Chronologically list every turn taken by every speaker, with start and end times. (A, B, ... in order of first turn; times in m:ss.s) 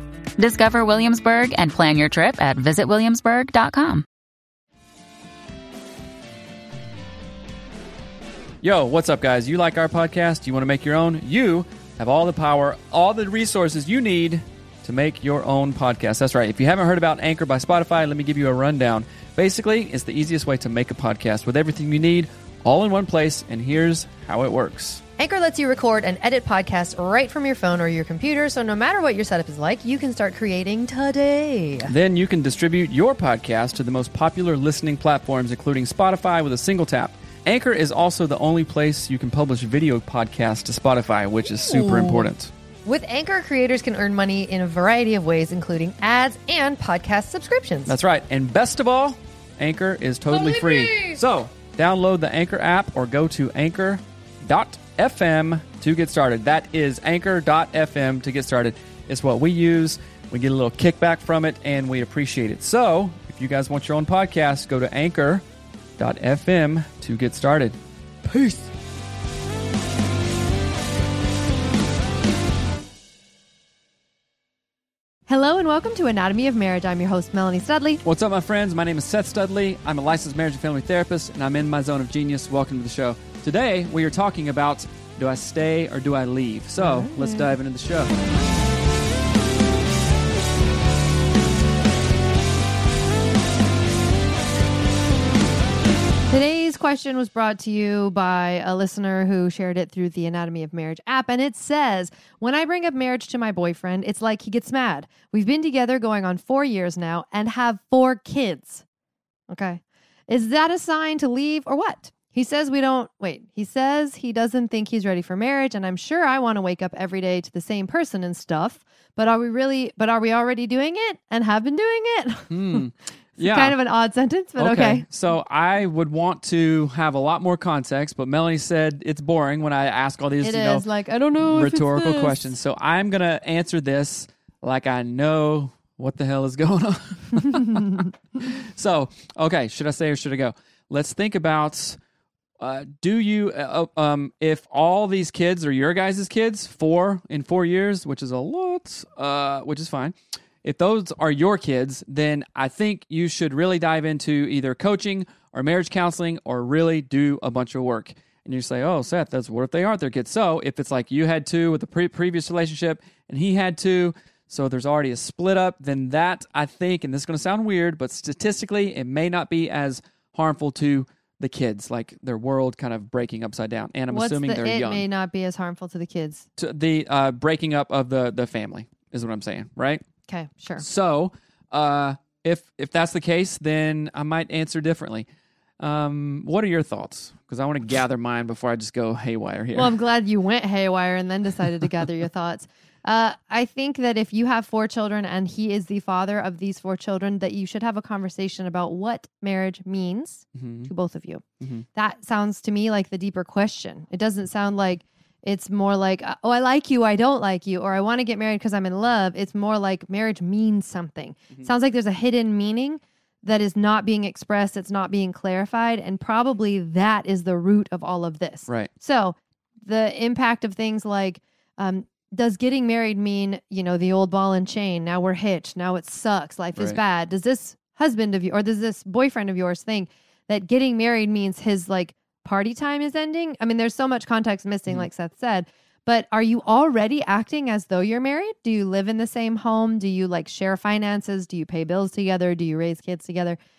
0:00.4-0:04.0 A
0:08.6-0:25.0 B
0:25.2-0:31.9 C
0:31.8-0:42.5 B
0:41.5-0:42.3 C
0:42.8-0:48.0 C
0:47.8-1:05.4 B
0:50.3-0:51.2 C
1:06.0-1:08.7 B
1:15.3-1:18.0 C
1:18.0-1:28.1 B
1:26.8-1:27.5 C
1:36.3-1:48.8 C
1:49.5-2:02.8 C
2:02.5-2:03.7 B
2:03.4-2:05.1 C
2:04.6-2:10.8 B
2:10.4-2:12.5 C
2:11.4-2:22.0 B
2:22.6-2:55.0 B
2:54.1-2:56.4 C
2:56.6-3:00.0 B
3:00.3-3:00.8 C
3:00.8-3:05.2 B
3:05.8-3:09.9 B
3:09.7-3:21.4 C
3:20.5-3:20.9 B
3:21.6-3:21.8 B
3:22.0-4:03.6 C